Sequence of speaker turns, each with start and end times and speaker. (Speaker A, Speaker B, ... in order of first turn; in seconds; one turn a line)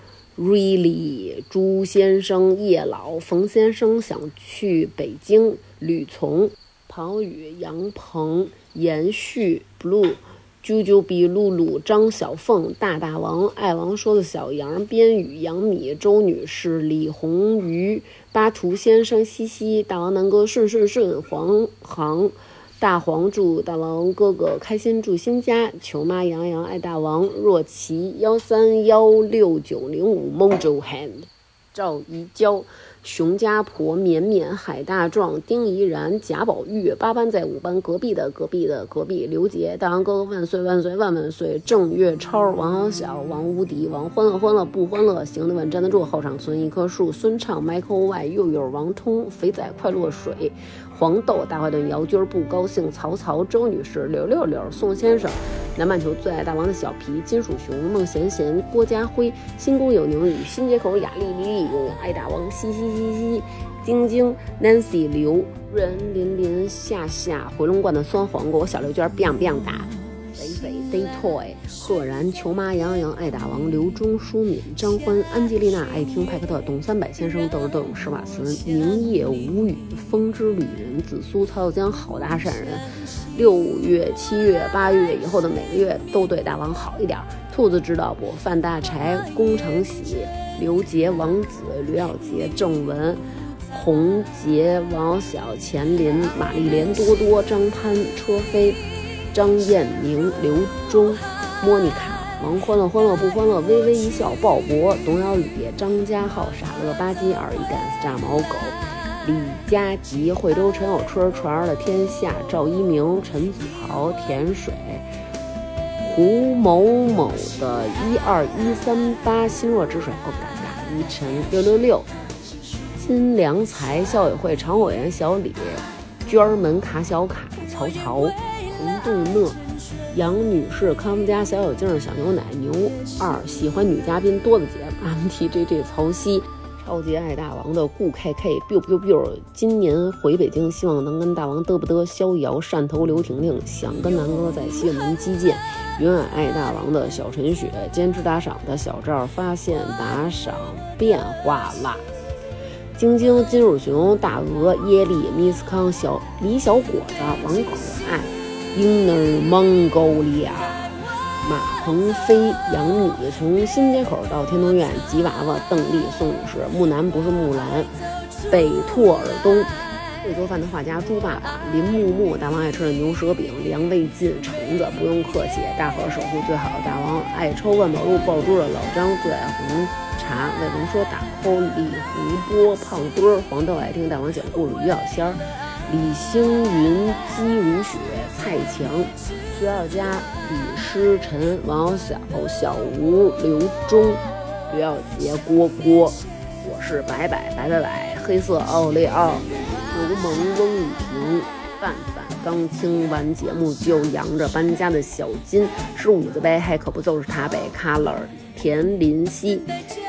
Speaker A: 0.3-98.8
Speaker A: 99.3-115.1
Speaker A: 116.0-122.1
Speaker A: 123.0-129.6
Speaker A: 130.1-152.1
Speaker A: 152.9-167.9
Speaker A: 168.5-169.7
Speaker A: 170.2-209.7